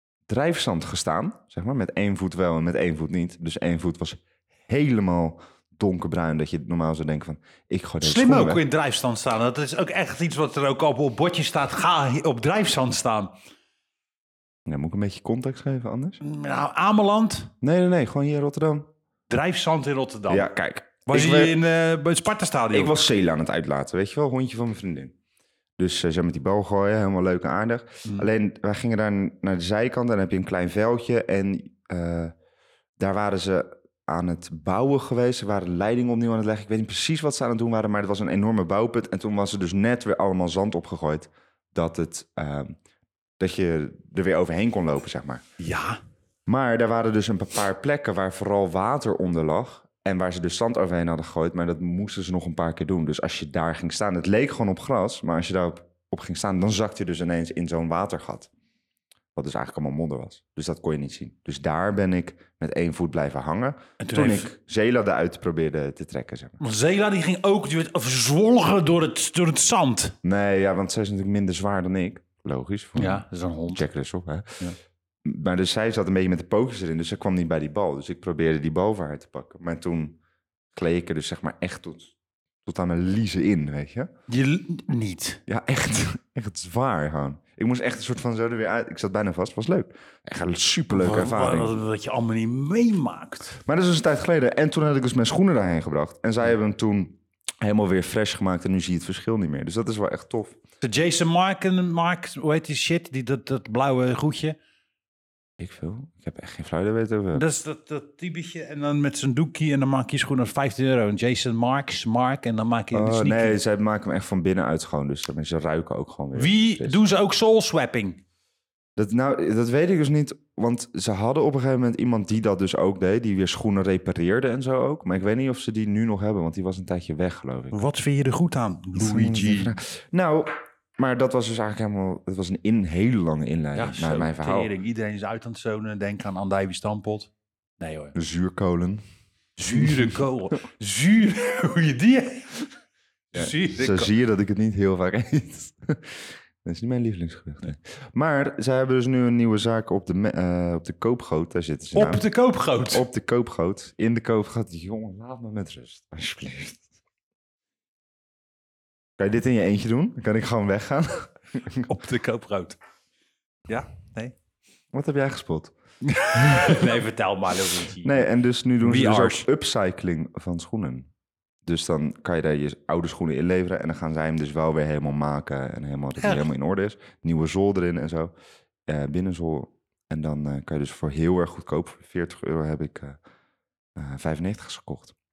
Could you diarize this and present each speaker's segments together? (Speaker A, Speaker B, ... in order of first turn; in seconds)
Speaker A: 0.3-8.6, 14.7-16.2, 17.6-18.9, 20.3-21.6, 22.7-25.1, 25.8-32.3, 33.0-42.8, 43.4-45.4, 46.5-58.5, 59.3-66.6, 70.2-74.6, 75.2-80.2, 80.7-84.1, 85.5-91.7, 93.6-100.6, 105.6-107.4, 112.9-117.0, 119.0-127.8, 128.9-134.7, 138.1-139.0, 139.7-140.2, 143.3-152.2, 152.9-156.8, 159.2-161.9, 164.9-165.7, 166.3-167.0, 168.0-171.1, 171.6-178.3, 178.9-183.2, 183.9-185.1
Speaker B: 8.0-13.3, 16.2-17.5, 19.3-20.5, 21.1-23.0, 45.6-46.0, 64.0-64.5, 66.6-70.2, 73.0-73.8, 84.3-85.4, 90.9-93.6, 100.8-104.6, 107.3-113.6, 116.3-118.2, 127.7-129.8, 133.7-138.2, 139.6-142.6, 143.3-144.1, 151.9-153.1, 161.8-162.8, 163.7-164.3, 166.0-168.3, 168.8-169.5, 176.2-176.5